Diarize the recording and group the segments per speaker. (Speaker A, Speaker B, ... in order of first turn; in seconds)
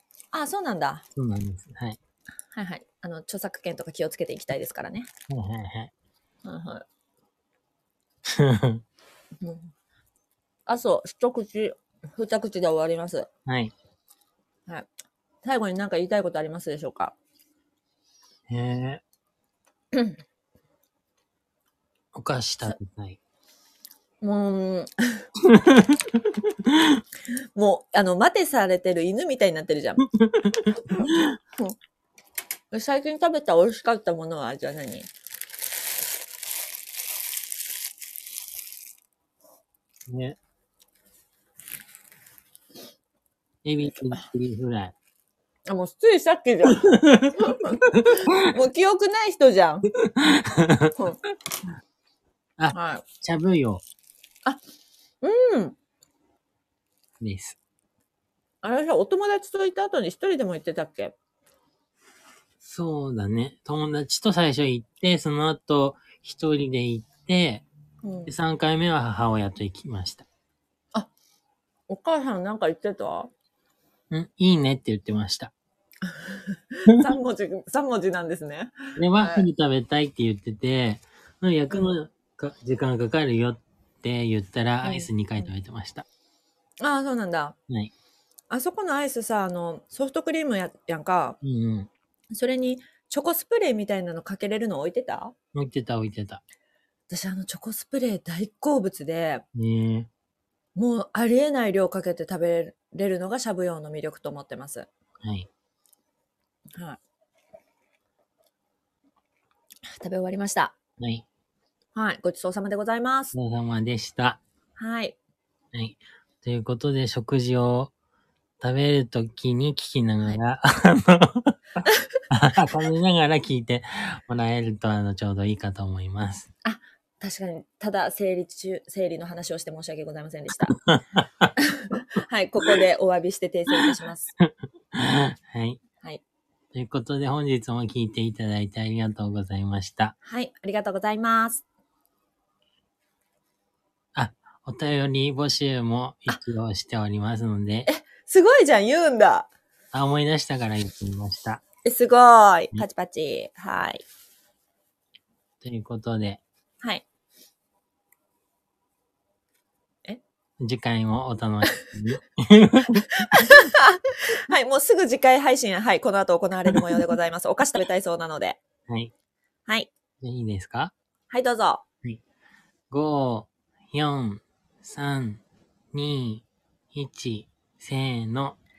Speaker A: 0.3-1.1, 2.5-5.1, 6.4-6.9, 9.4-9.7, 10.7-13.3, 15.4-17.1, 19.9-20.2, 24.2-25.3, 27.3-30.0, 32.7-35.1, 45.7-49.9, 52.7-53.0, 55.2-55.8, 58.6-61.2, 68.0-68.3, 71.9-73.3, 76.0-79.5, 81.7-82.0, 84.8-85.5, 86.8-87.6, 88.5-91.4, 92.3-95.3, 97.1-99.5, 100.8-104.9, 106.7-107.0, 110.0-110.8, 112.0-113.3, 114.8-115.2, 121.9-122.2, 126.7-130.8, 131.6-134.3, 140.2-141.6, 147.9-149.5, 151.8-154.0, 163.1-168.6, 171.3-171.8
Speaker B: 1.2-2.0, 5.3-5.9, 8.3-8.8, 13.5-13.7, 18.5-19.0, 22.1-23.2, 25.4-27.0, 30.1-31.4, 40.1-40.4, 43.6-44.9, 46.8-48.5, 50.0-51.0, 52.6-53.8, 57.2-57.6, 62.6-67.7, 68.3-70.3, 74.1-75.5, 79.0-86.1, 91.4-91.9, 95.5-96.4, 99.5-100.1, 105.2-105.5, 111.0-111.3, 113.3-114.4, 115.7-117.9, 118.6-126.5, 130.7-131.5, 134.4-135.8, 136.7-140.2, 144.2-147.9, 149.9-151.6, 155.6-156.4, 160.6-163.1, 170.2-170.9, 172.9-175.4, 175.9-178.6